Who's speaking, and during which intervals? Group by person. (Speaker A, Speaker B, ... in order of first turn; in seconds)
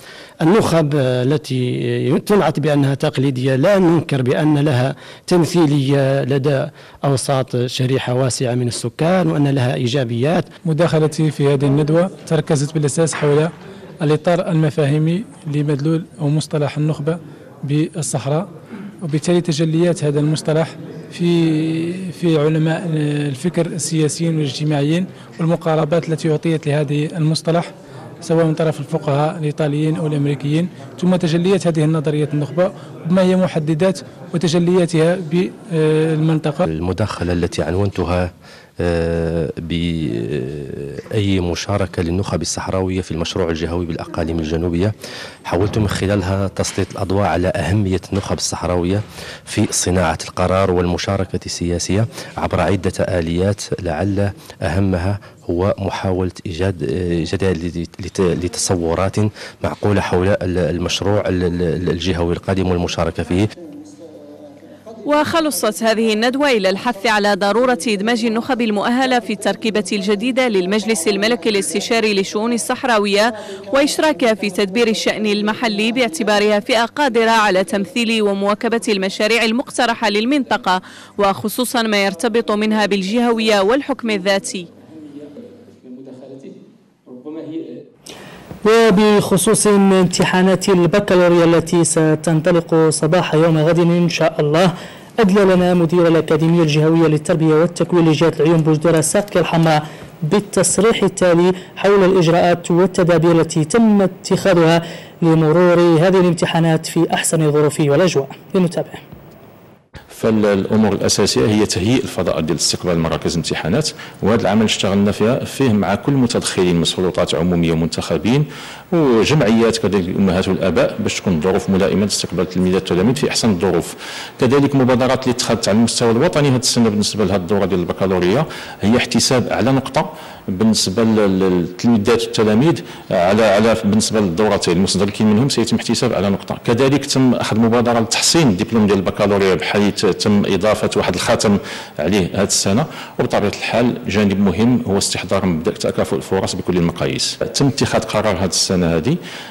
Speaker A: 0.4-10.5
Speaker B: 10.6-18.5, 19.0-36.7
Speaker C: 36.7-44.9, 45.5-63.5
Speaker D: 65.0-84.7
Speaker E: 88.6-109.0
Speaker F: 110.1-149.2